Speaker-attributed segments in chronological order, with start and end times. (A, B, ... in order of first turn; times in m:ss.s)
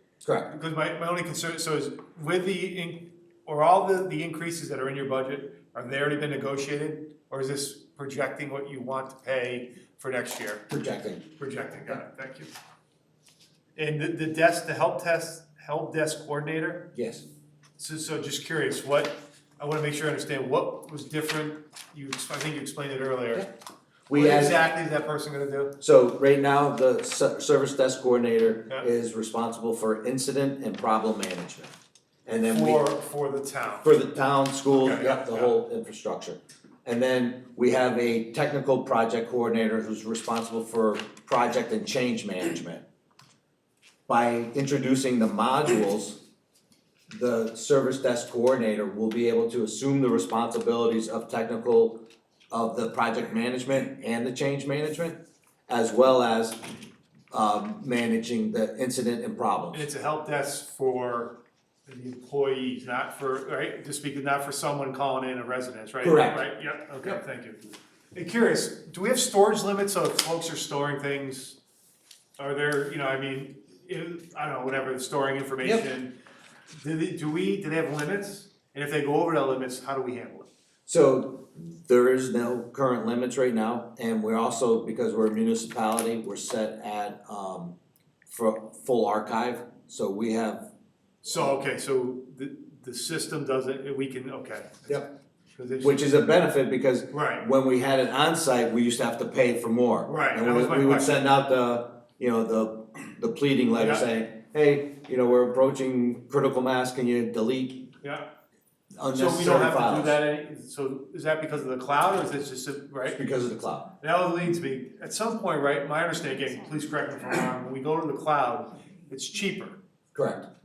0:00.2-0:00.5 A
0:00.5-0:10.7 B
0:10.7-0:11.3 A
0:11.4-0:12.5 B
0:13.8-0:16.9 B
0:16.9-0:17.3 A
0:17.8-0:23.5 B
0:24.1-0:24.6 A
0:24.1-0:25.8 B
0:25.8-0:31.7 A
0:32.3-0:32.8 A
0:32.5-0:33.9 B
0:33.8-0:42.8 A
0:34.7-0:35.6 B
0:44.1-0:46.2 A
0:47.1-0:56.7 A
0:57.3-0:59.9 A
0:59.7-1:07.6 B
1:06.0-1:06.5 A
1:08.1-1:11.6 B
1:12.4-1:16.2 B
1:15.6-1:15.9 A
1:16.8-1:20.5 B
1:20.9-1:27.8 A
1:28.3-1:30.7 A
1:31.2-1:36.1 B
1:35.8-1:47.9 A
1:37.1-1:37.5 B
1:40.1-1:41.2 B
1:43.8-1:44.0 B
1:48.0-1:48.3 B
1:49.0-1:50.2 A
1:49.1-1:53.2 B
1:53.1-1:53.9 A
1:54.0-1:59.8 B
2:00.1-2:00.5 A